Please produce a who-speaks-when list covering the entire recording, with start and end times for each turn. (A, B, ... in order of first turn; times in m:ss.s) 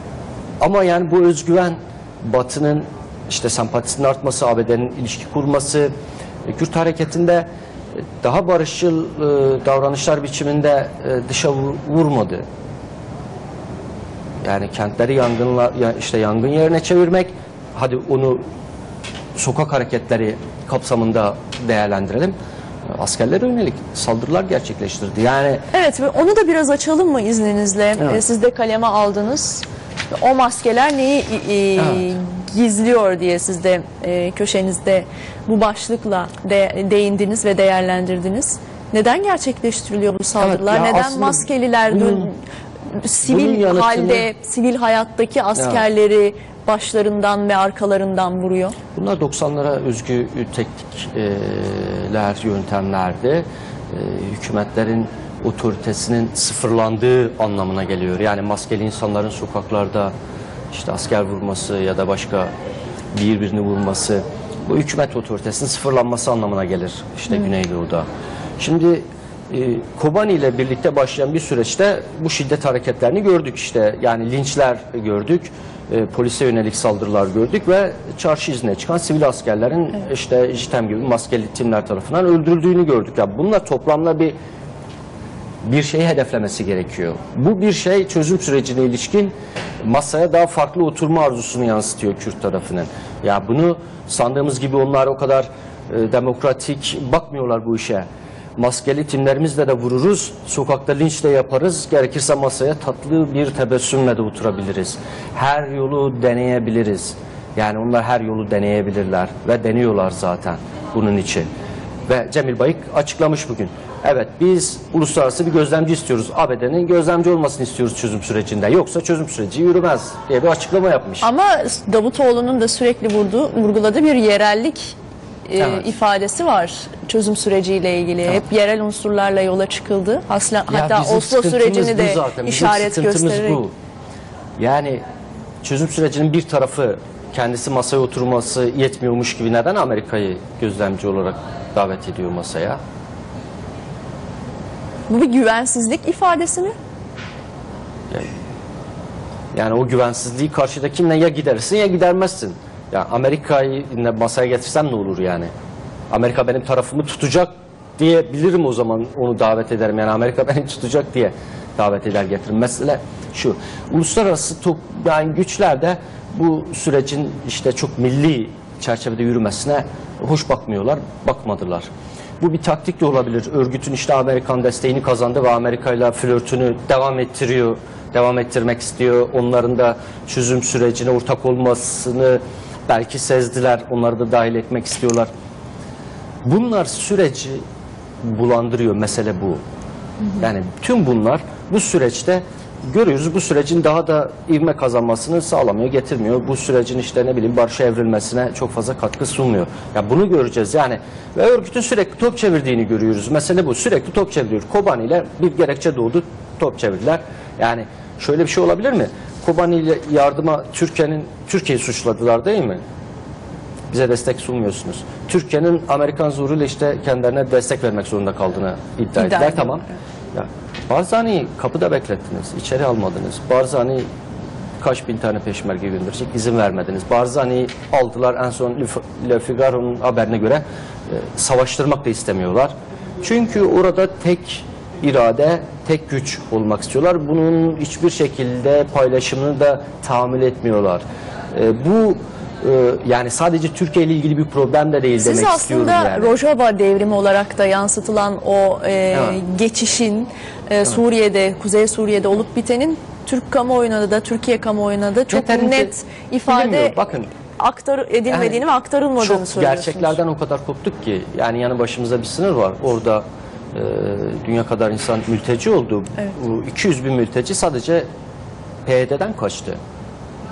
0:00.6-0:05.9 A
0:06.5-0:07.5 A
0:08.2-0:12.4 A
0:14.4-0:18.4 A
0:19.4-0:22.4 A
0:23.0-0:25.6 A
0:25.7-0:42.4 B
0:31.8-0:32.1 A
0:40.4-0:42.3 A
0:43.0-0:48.8 B
0:43.2-0:44.3 A
0:45.6-0:45.8 A
0:49.0-1:00.1 A
1:00.7-1:02.5 A
1:03.1-1:08.0 A
1:08.6-1:24.4 A
1:25.6-1:38.1 A
1:38.6-1:51.5 A
1:52.1-2:01.3 A
2:01.2-2:05.0 B
2:05.5-2:13.6 B
2:05.6-2:05.9 A
2:10.7-2:13.7 A
2:14.6-2:15.0 A
2:15.6-2:22.8 A
2:25.1-2:26.8 B
2:29.5-2:35.5 A
2:36.1-2:51.9 A
2:52.4-3:05.3 A
3:06.4-3:07.6 A
3:08.2-3:09.6 A
3:10.4-3:32.8 A
3:33.9-3:44.1 A
3:39.2-3:39.9 B
3:44.8-4:06.4 A
4:05.2-4:17.0 B
4:09.1-4:09.4 A
4:15.3-4:15.9 A
4:16.5-4:17.3 A
4:17.6-4:20.2 B
4:18.3-4:18.6 A
4:19.2-4:28.1 A
4:28.9-4:29.8 A